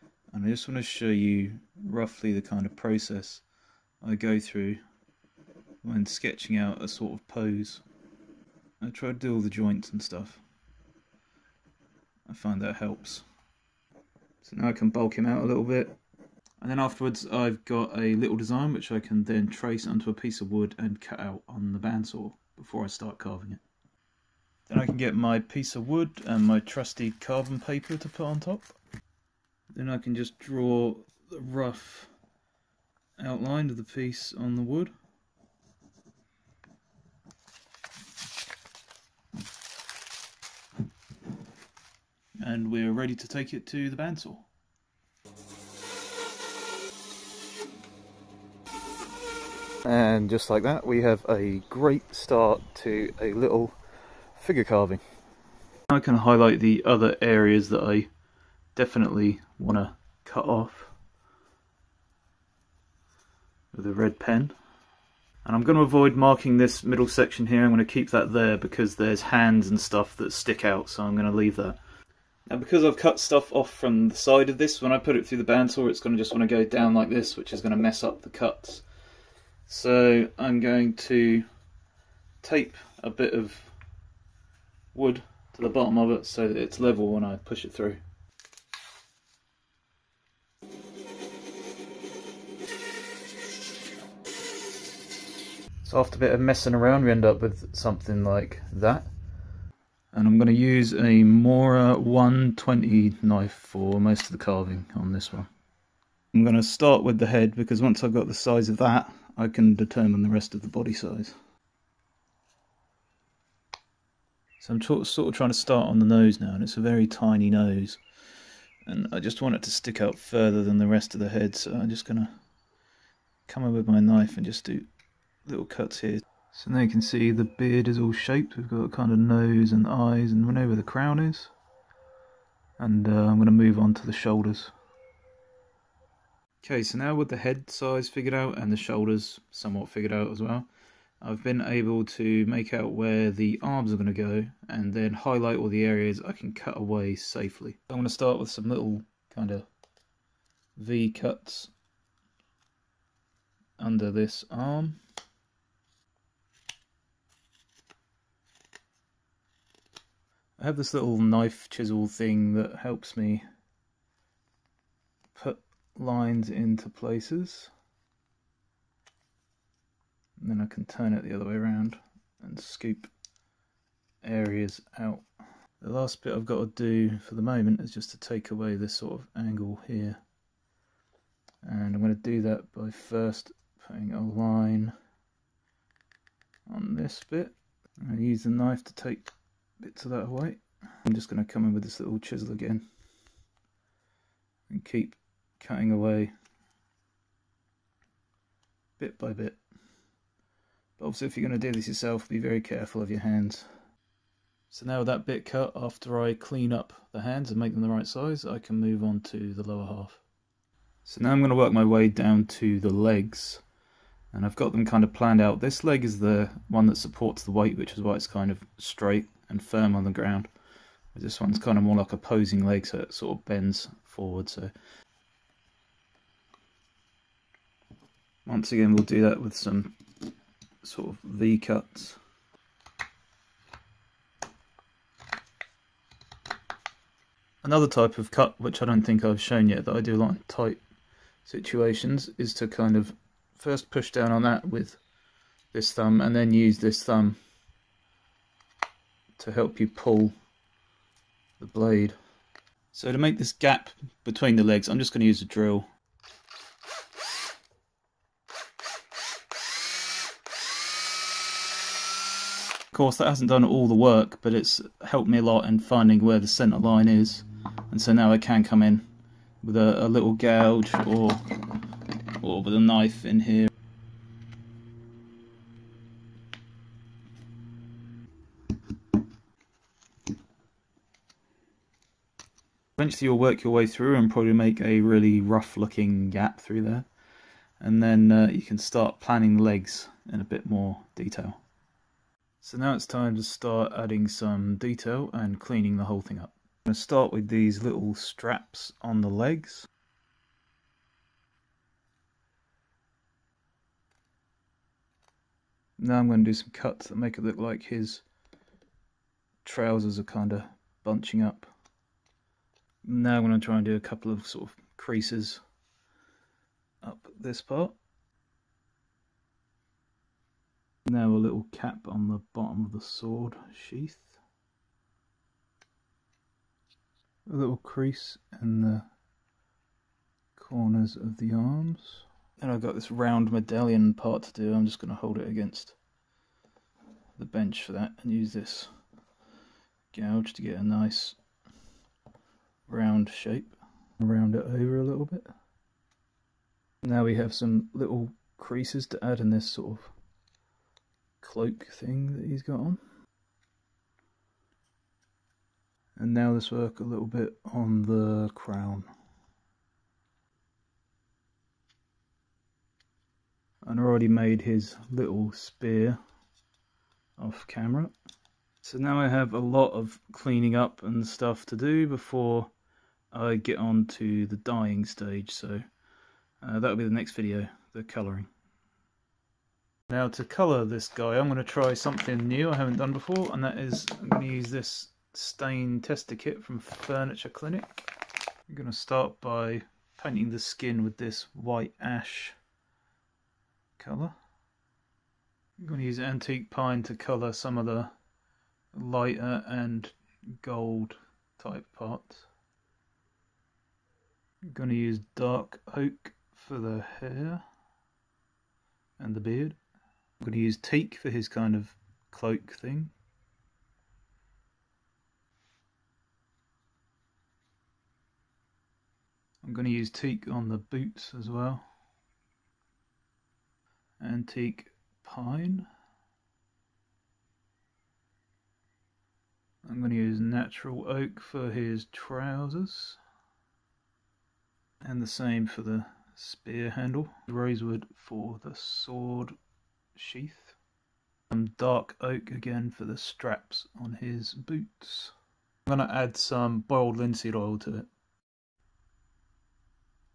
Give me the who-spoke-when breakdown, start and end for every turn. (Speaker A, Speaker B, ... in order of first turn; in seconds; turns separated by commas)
Speaker A: 0.3-3.4, Speaker A: 4.0-4.8, Speaker A: 5.8-7.8, Speaker A: 8.8-10.4, Speaker A: 12.3-13.2, Speaker A: 14.4-15.9, Speaker A: 16.6-23.6, Speaker A: 24.7-28.8, Speaker A: 29.7-32.1, Speaker A: 33.2-34.9, Speaker A: 42.4-44.5, Speaker A: 49.8-53.7, Speaker A: 54.3-55.0, Speaker A: 55.9-58.1, Speaker A: 58.7-60.9, Speaker A: 63.7-64.5, Speaker A: 65.4-71.8, Speaker A: 72.5-78.8, Speaker A: 79.7-81.4, Speaker A: 82.4-83.7, Speaker A: 84.9-88.0, Speaker A: 95.8-99.1, Speaker A: 100.1-105.5, Speaker A: 106.3-111.3, Speaker A: 114.6-118.0, Speaker A: 118.8-122.3, Speaker A: 123.5-124.9, Speaker A: 125.5-131.5, Speaker A: 132.8-134.7, Speaker A: 136.6-140.7, Speaker A: 141.2-149.7, Speaker A: 150.8-151.7, Speaker A: 153.8-155.0, Speaker A: 160.6-163.4, Speaker A: 165.3-167.7, Speaker A: 170.4-173.1, Speaker A: 174.2-175.2, Speaker A: 175.8-180.2, Speaker A: 181.6-184.9, Speaker A: 186.7-192.8, Speaker A: 194.7-196.3, Speaker A: 199.0-199.6, Speaker A: 201.0-203.7, Speaker A: 204.7-210.2, Speaker A: 211.0-213.6, Speaker A: 214.3-220.5, Speaker A: 221.1-224.7, Speaker A: 228.4-229.9, Speaker A: 230.8-232.2, Speaker A: 237.6-240.8, Speaker A: 241.4-245.0, Speaker A: 245.7-247.4, Speaker A: 249.4-250.3, Speaker A: 251.6-252.2, Speaker A: 252.9-255.8, Speaker A: 262.9-269.0, Speaker A: 269.6-271.4, Speaker A: 272.4-273.7, Speaker A: 283.0-287.1, Speaker A: 287.8-291.6, Speaker A: 292.6-299.9, Speaker A: 306.0-308.2, Speaker A: 309.6-311.7, Speaker A: 313.0-315.6, Speaker A: 317.0-317.9, Speaker A: 321.0-324.4, Speaker A: 327.5-329.0, Speaker A: 330.6-335.9, Speaker A: 337.4-338.9, Speaker A: 340.1-341.4, Speaker A: 342.9-345.5, Speaker A: 347.0-350.1, Speaker A: 351.4-353.0, Speaker A: 356.1-359.1, Speaker A: 363.8-366.2, Speaker A: 367.4-368.1, Speaker A: 368.8-372.7, Speaker A: 373.3-375.8, Speaker A: 376.6-378.5, Speaker A: 380.1-388.0, Speaker A: 388.7-392.6, Speaker A: 394.0-394.3, Speaker A: 395.8-398.1, Speaker A: 398.9-402.5, Speaker A: 404.7-407.6, Speaker A: 409.2-409.8, Speaker A: 410.4-413.1, Speaker A: 419.6-421.8, Speaker A: 424.2-425.9, Speaker A: 429.8-433.2, Speaker A: 435.0-439.5, Speaker A: 440.1-440.8, Speaker A: 441.5-445.3, Speaker A: 445.9-448.1